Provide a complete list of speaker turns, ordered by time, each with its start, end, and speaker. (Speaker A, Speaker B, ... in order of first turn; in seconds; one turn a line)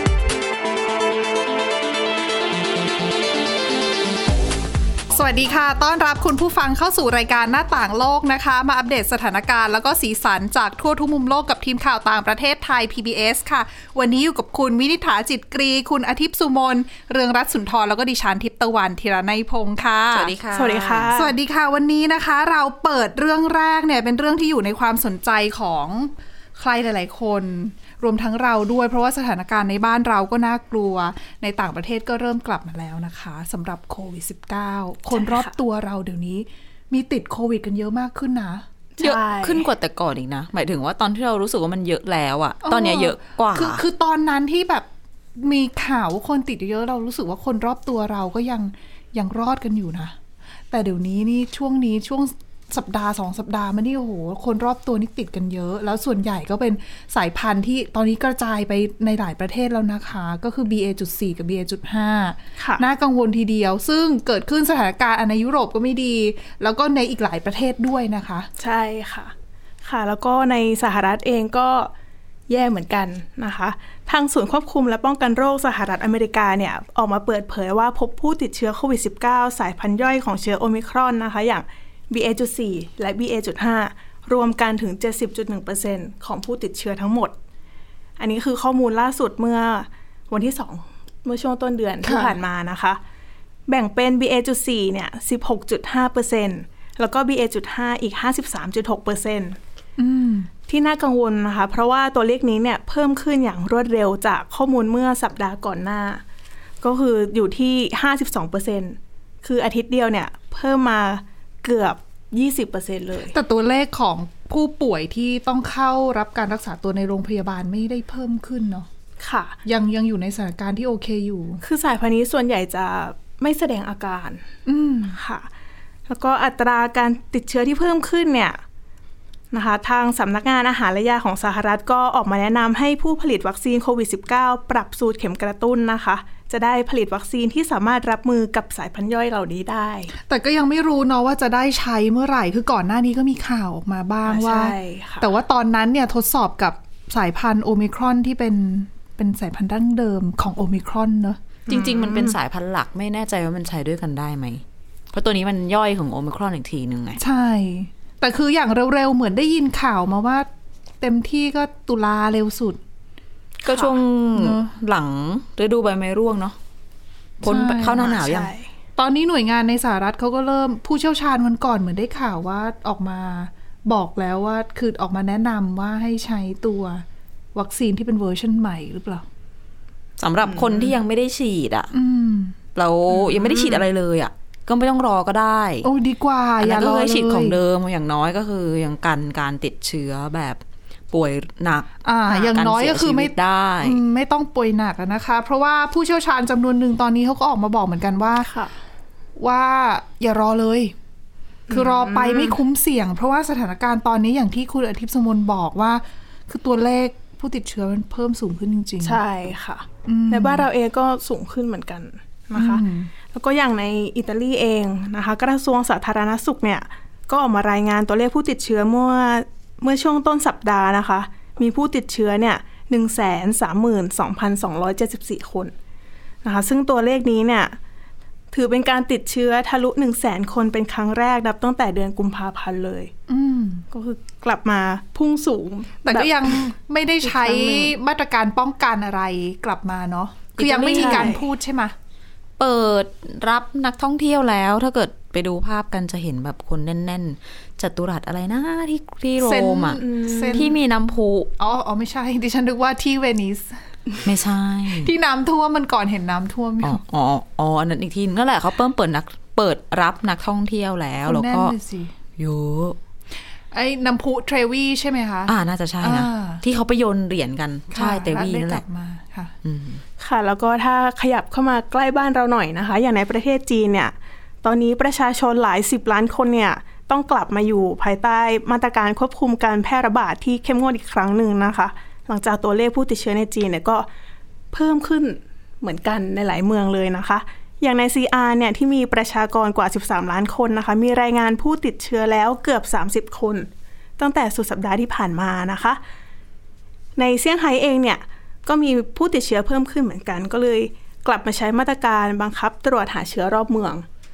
Speaker A: 5.1-20.3
Speaker B: 20.1-21.1
Speaker C: 20.5-21.4
Speaker A: 21.1-38.6
Speaker C: 35.1-35.5
Speaker C: 39.0-39.7
Speaker B: 39.0-43.8
Speaker A: 42.6-44.9
Speaker A: 45.4-50.1
Speaker A: 50.7-68.5
Speaker C: 62.6-62.8
Speaker C: 68.6-69.3
Speaker C: 69.8-71.9
Speaker C: 72.5-87.3
Speaker C: 88.2-93.0
Speaker A: 92.0-92.3
Speaker C: 93.7-99.6
Speaker A: 100.0-100.5
Speaker C: 100.7-106.2
Speaker C: 106.8-113.3
Speaker A: 113.2-118.9
Speaker C: 119.2-119.6
Speaker A: 119.7-121.6
Speaker C: 121.6-124.4
Speaker A: 124.7-125.2
Speaker C: 125.1-125.5
Speaker C: 126.1-128.6
Speaker C: 129.5-140.1
Speaker A: 140.2-151.4
Speaker C: 144.2-145.3
Speaker C: 151.7-152.4
Speaker B: 151.7-157.2
Speaker A: 157.2-160.5
Speaker A: 161.0-162.8
Speaker C: 163.6-163.9
Speaker B: 163.7-166.6
Speaker A: 164.3-164.7
Speaker A: 167.4-168.1
Speaker B: 167.4-168.5
Speaker C: 168.0-168.7
Speaker A: 169.0-177.0
Speaker A: 177.6-179.2
Speaker B: 180.2-181.9
Speaker C: 180.5-180.9
Speaker A: 181.9-182.6
Speaker B: 182.8-185.9
Speaker C: 183.3-183.8
Speaker A: 185.8-187.6
Speaker B: 186.6-194.0
Speaker A: 192.1-198.5
Speaker C: 198.4-198.7
Speaker A: 199.4-200.9
Speaker C: 201.7-202.6
Speaker A: 201.7-209.2
Speaker C: 209.0-225.7
Speaker A: 210.1-210.7
Speaker A: 212.6-213.1
Speaker C: 226.4-227.8
Speaker C: 228.5-233.1
Speaker A: 233.3-233.9
Speaker C: 233.9-236.6
Speaker A: 236.1-241.9
Speaker C: 237.2-237.9
Speaker B: 240.6-241.3
Speaker C: 240.9-241.4
Speaker B: 242.6-250.0
Speaker A: 249.4-250.7
Speaker C: 250.0-250.7
Speaker B: 250.5-251.5
Speaker A: 251.6-253.8
Speaker B: 254.2-255.1
Speaker A: 254.9-257.0
Speaker B: 256.8-261.8
Speaker A: 261.2-262.1
Speaker B: 262.4-263.0
Speaker A: 263.7-266.6
Speaker B: 265.5-268.8
Speaker A: 267.9-269.6
Speaker B: 269.6-270.0
Speaker C: 270.2-284.1
Speaker C: 284.7-293.7
Speaker C: 294.2-296.0
Speaker C: 297.2-304.1